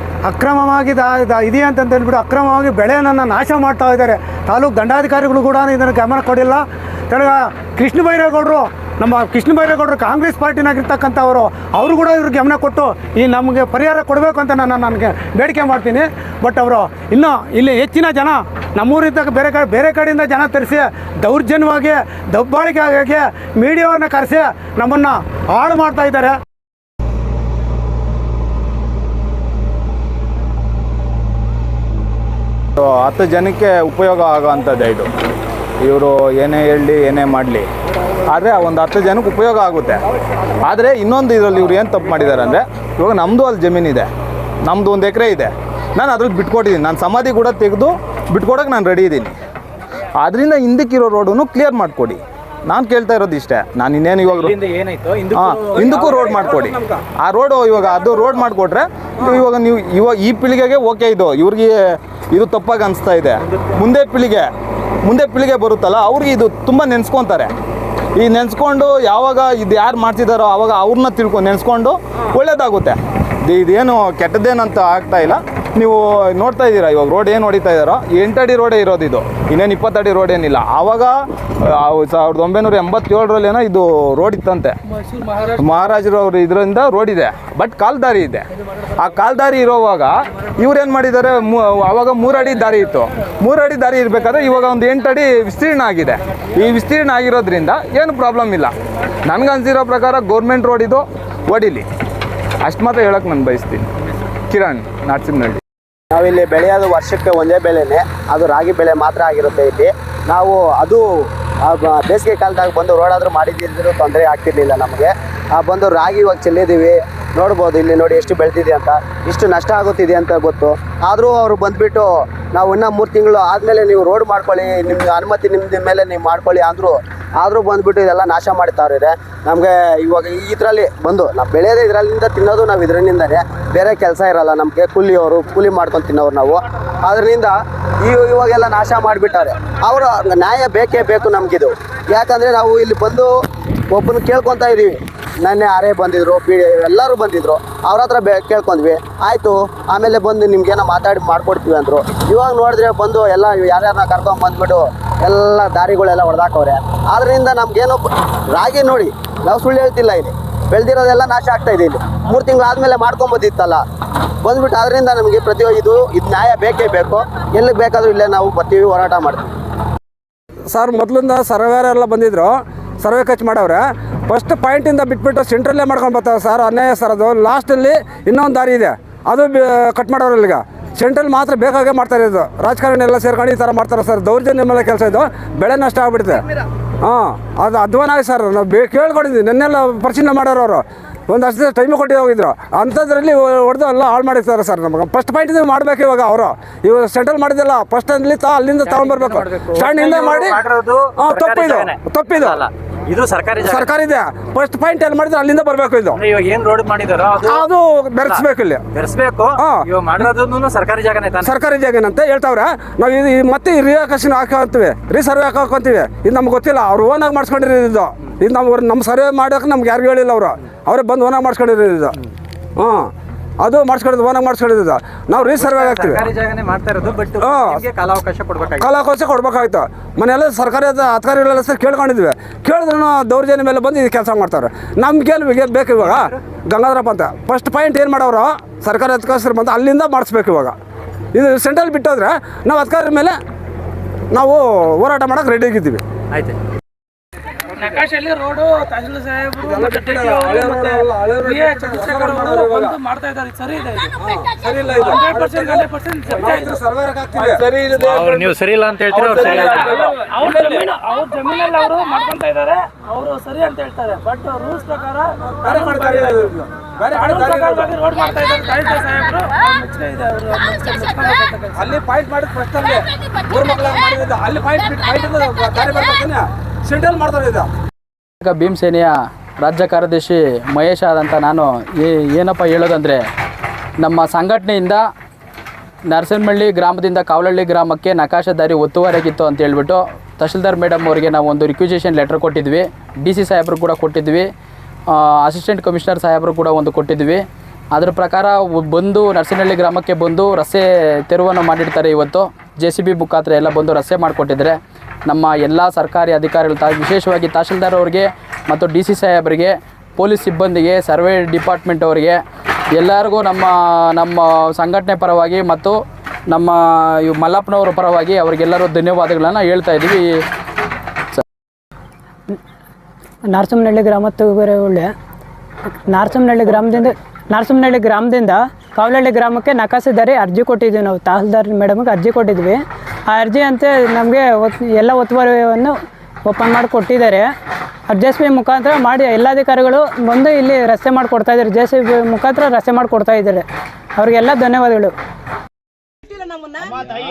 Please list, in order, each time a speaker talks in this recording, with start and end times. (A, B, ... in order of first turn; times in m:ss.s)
0:00.3-0:26.3 A
0:32.8-0:35.1 B
0:35.8-0:37.7 B
0:38.3-0:40.0 B
0:40.6-0:44.1 B
0:44.6-0:49.4 B
0:50.2-0:54.6 B
0:54.2-0:56.5 C
0:55.3-1:04.5 B
0:55.8-0:57.0 D
1:05.0-1:07.5 B
1:08.2-1:24.8 B
1:25.4-1:28.5 B
1:29.0-1:38.7 B
1:39.2-1:41.9 B
1:42.6-1:43.9 B
1:44.5-1:45.6 B
1:46.1-2:23.3 E
2:23.9-2:43.8 E
2:44.4-2:49.5 E
2:50.7-3:06.4 D
3:07.0-3:20.6 D
3:18.8-3:23.9 C
3:21.1-3:22.6 D
3:23.6-3:26.2 D
3:26.2-3:27.7 C
3:27.4-3:28.8 D
3:28.2-3:31.6 C
3:29.6-3:29.9 D
3:31.4-3:42.2 D
3:42.8-3:43.1 D
3:43.6-3:46.3 D
3:45.4-3:48.9 C
3:47.4-3:47.8 D
3:48.8-4:00.8 D
4:01.3-4:03.4 D
4:04.3-4:06.0 D
4:07.8-4:14.1 F
4:09.6-4:13.0 D
4:14.2-4:18.4 D
4:14.9-4:16.7 F
4:18.0-4:18.6 B
4:18.0-4:19.8 C
4:19.0-4:20.9 D
4:19.6-4:26.3 F
4:25.6-4:28.0 D
4:27.1-4:31.7 F
4:31.7-4:37.7 D
4:38.4-4:43.2 G
4:44.0-4:45.1 G
4:46.1-4:54.5 G
4:55.1-5:12.4 G
5:13.0-5:16.0 G
5:16.5-5:20.4 G
5:23.5-5:25.1 H
5:26.1-5:35.9 H
5:36.5-5:37.5 H
5:38.1-5:43.6 H
5:44.2-5:45.1 H